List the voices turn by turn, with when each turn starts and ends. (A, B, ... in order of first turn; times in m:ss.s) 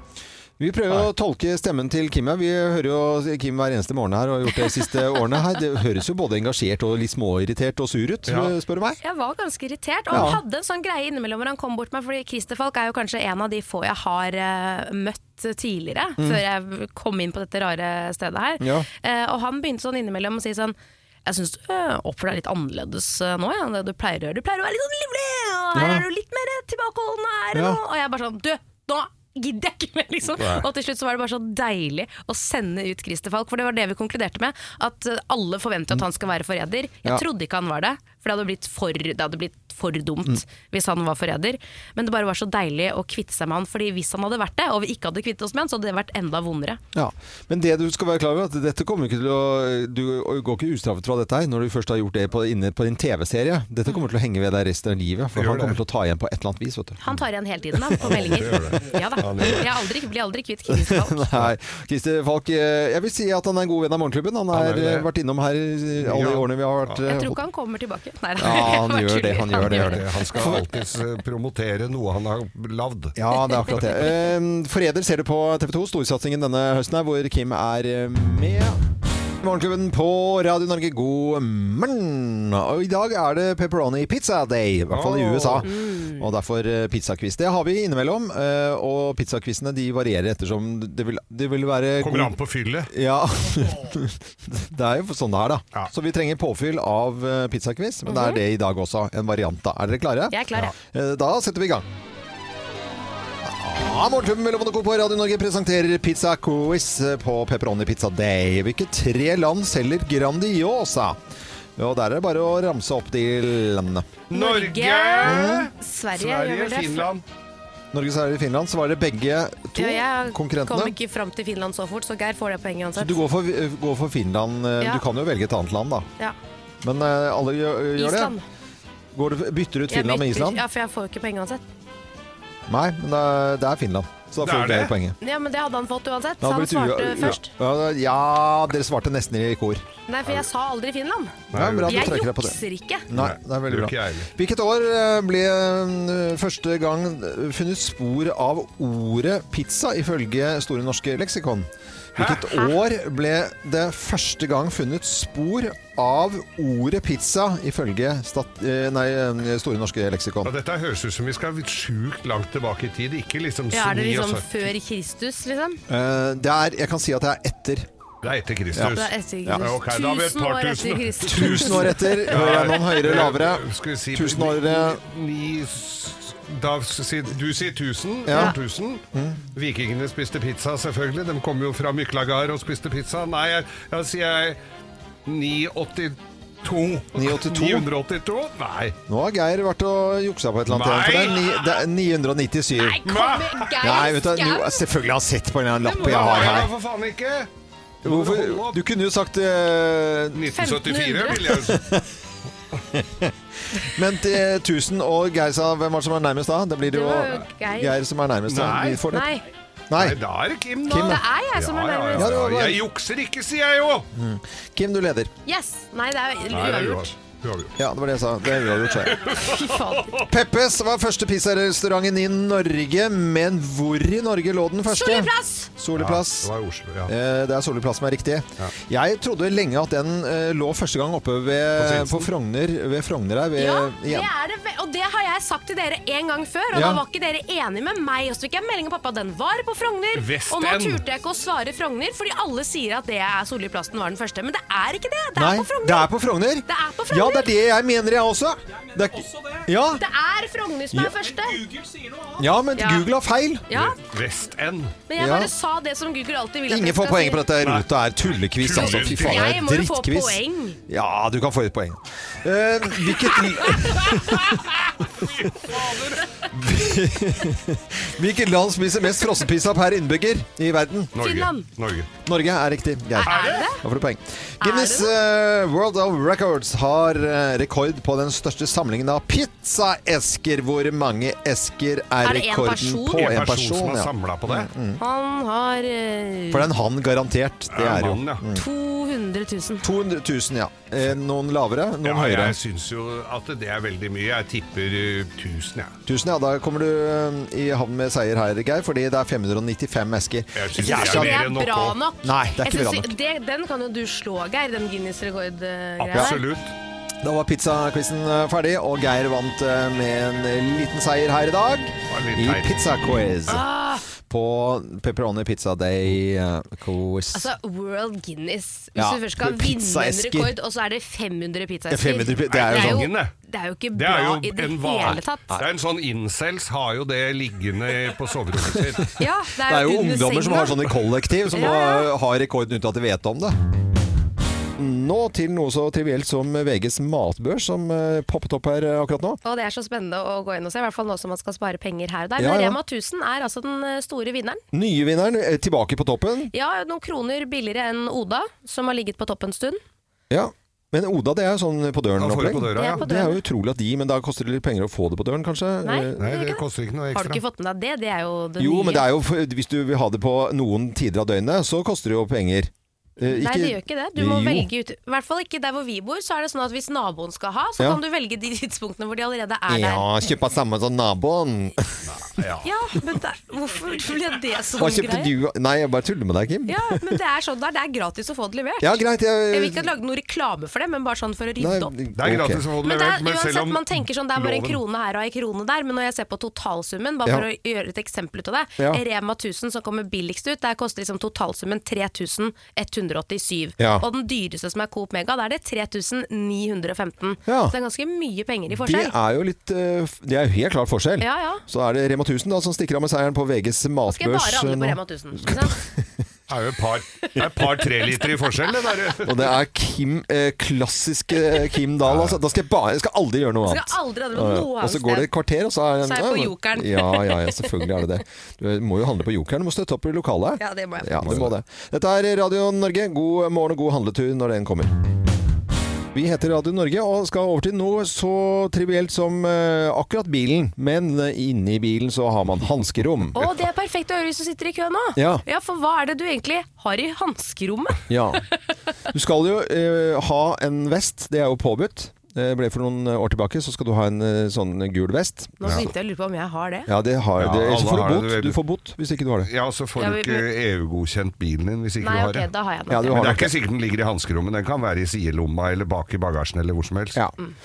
0:00.6-0:09.0 A
0:08.3-0:08.5 B
0:09.0-0:46.8 C
0:10.1-0:10.4 A
0:18.6-0:18.9 A
0:25.7-0:26.0 A
0:27.5-0:27.8 A
0:46.9-0:57.1 A
0:55.4-0:55.8 B
0:57.0-1:01.3 C
0:57.9-0:58.6 A
0:58.0-0:59.7 B
1:00.7-1:07.4 A
1:04.5-1:05.1 B
1:06.0-1:07.0 B
1:07.1-1:10.6 C
1:08.4-1:10.6 A
1:09.6-1:13.2 B
1:13.2-1:18.8 A
1:19.4-1:41.9 A
1:24.9-1:25.7 B
1:25.6-1:26.3 C
1:32.0-1:32.9 B
1:38.1-1:38.4 C
1:40.3-1:40.7 C
1:43.4-1:51.2 A
1:51.8-1:54.2 A
1:54.3-1:57.2 B
1:54.3-1:57.1 C
1:55.2-1:55.7 A
1:57.9-2:01.0 A
1:59.8-2:03.2 C
2:03.0-2:06.1 A
2:06.8-2:08.3 A
2:08.0-2:08.4 C
2:09.1-2:10.6 A
2:09.9-2:11.6 C
2:12.7-2:15.2 A
2:14.4-2:14.9 B
2:15.2-2:17.5 C
2:16.4-2:19.8 A
2:20.1-2:23.1 C
2:21.5-2:22.1 B
2:21.5-2:22.6 A
2:23.1-2:40.5 A
2:23.1-2:24.3 B
2:32.2-2:32.6 B
2:40.4-2:44.5 B
2:43.7-2:45.8 C
2:45.9-2:47.9 A
2:48.2-2:59.0 B
2:48.7-2:49.7 A
2:48.9-2:52.6 C
2:51.3-2:55.0 A
2:58.3-2:58.6 A
2:59.1-2:59.4 A
2:59.5-3:04.6 B
3:05.3-3:09.0 B
3:07.2-3:07.9 A
3:09.1-3:13.0 A
3:10.7-3:11.8 B
3:12.8-3:14.8 C
3:13.0-3:13.7 B
3:13.8-3:16.7 A
3:15.8-3:17.5 B
3:18.0-3:20.5 A
3:18.0-3:18.8 B
3:20.4-3:21.9 B
3:20.5-3:21.5 C
3:21.6-3:22.0 A
3:22.9-3:29.3 A
3:26.8-3:28.0 C
3:28.5-3:29.0 B
3:29.1-3:29.5 C
3:29.9-3:30.2 A
3:30.0-3:34.1 B
3:30.9-3:31.2 A
3:30.9-3:32.3 C
3:32.2-3:32.8 A
3:34.1-3:35.3 A
3:35.5-3:37.1 C
3:36.5-3:37.7 B
3:37.8-3:39.2 A
3:39.1-3:40.2 B
3:39.4-3:40.1 C
3:40.3-3:46.5 A
3:44.9-3:45.7 C
3:46.0-3:47.1 B
3:47.1-3:54.3 A
3:51.8-3:52.3 B
3:53.6-4:06.1 C
3:56.7-3:57.0 A
4:00.1-4:01.0 B
4:05.4-4:10.0 A
4:06.7-4:07.5 C
4:10.0-4:11.7 C
4:12.4-4:13.7 A
4:12.8-4:13.1 C
4:13.7-4:14.0 C
4:13.7-4:15.0 B
4:15.1-4:17.5 C
4:15.2-4:15.5 A
4:16.7-4:24.6 A
4:17.6-4:19.5 B
4:18.8-4:20.8 C
4:24.0-4:26.3 B
4:26.5-4:31.1 A
4:31.2-4:32.1 B
4:31.2-4:31.7 C
4:32.2-4:45.0 A
4:33.2-4:33.8 C
4:33.3-4:33.7 B
4:34.6-4:35.2 C
4:42.2-4:43.3 C
4:43.1-4:44.7 B
4:45.0-4:46.7 C
4:46.5-4:48.7 A
4:47.7-4:48.4 B
4:48.6-4:49.9 C
4:49.8-4:52.6 A
4:52.0-4:56.0 B
4:56.1-5:01.4 A
5:00.6-5:02.0 B
5:00.8-5:06.4 C
5:02.2-5:03.1 A
5:06.0-5:06.7 B
5:07.2-5:13.6 A
5:12.1-5:13.6 B
5:13.5-5:14.0 C
5:14.2-5:17.5 A
5:17.3-5:25.4 C
5:19.0-5:20.5 A
5:21.9-5:23.1 A
5:22.5-5:23.3 B
5:23.9-5:29.2 B
5:29.2-5:30.8 C
5:29.6-5:33.6 A
5:31.5-5:32.1 C
5:34.8-5:39.4 A
5:39.4-5:44.6 C
5:42.4-5:42.8 A
5:44.7-5:46.5 A
5:46.5-5:49.8 C
5:50.3-5:56.3 A
5:52.2-5:53.0 B
5:52.8-5:53.4 C
5:55.8-5:56.6 C
5:56.2-5:57.4 B
5:57.1-5:59.1 C
5:58.6-6:04.7 A
6:03.2-6:10.1 C
6:09.7-6:12.1 A
6:12.1-6:12.7 B
6:12.6-6:15.3 C
6:14.8-6:17.2 A
6:16.7-6:21.9 C
6:18.8-6:19.9 A
6:21.6-6:22.6 A
6:22.2-6:24.8 B
6:22.8-6:39.2 C
6:33.8-6:34.0 A
6:37.5-6:37.7 A
6:38.7-6:46.2 A
6:41.2-6:41.6 C
6:44.1-6:45.8 C
6:46.5-6:49.4 B
6:49.2-7:04.9 A
6:52.0-6:52.4 B
6:53.6-6:55.3 C
6:56.0-6:57.9 C
7:00.6-7:01.2 C
7:01.2-7:01.5 B
7:06.1-7:13.5 A
7:13.4-7:18.0 C
7:15.2-7:15.4 A
7:18.1-7:18.4 A
7:19.1-7:25.9 A
7:25.6-7:26.9 C
7:26.9-7:29.5 A
7:27.4-7:28.6 B
7:29.4-7:32.5 B
7:30.0-7:30.4 C
7:32.0-7:33.3 C
7:32.9-7:33.5 A
7:33.1-7:37.2 B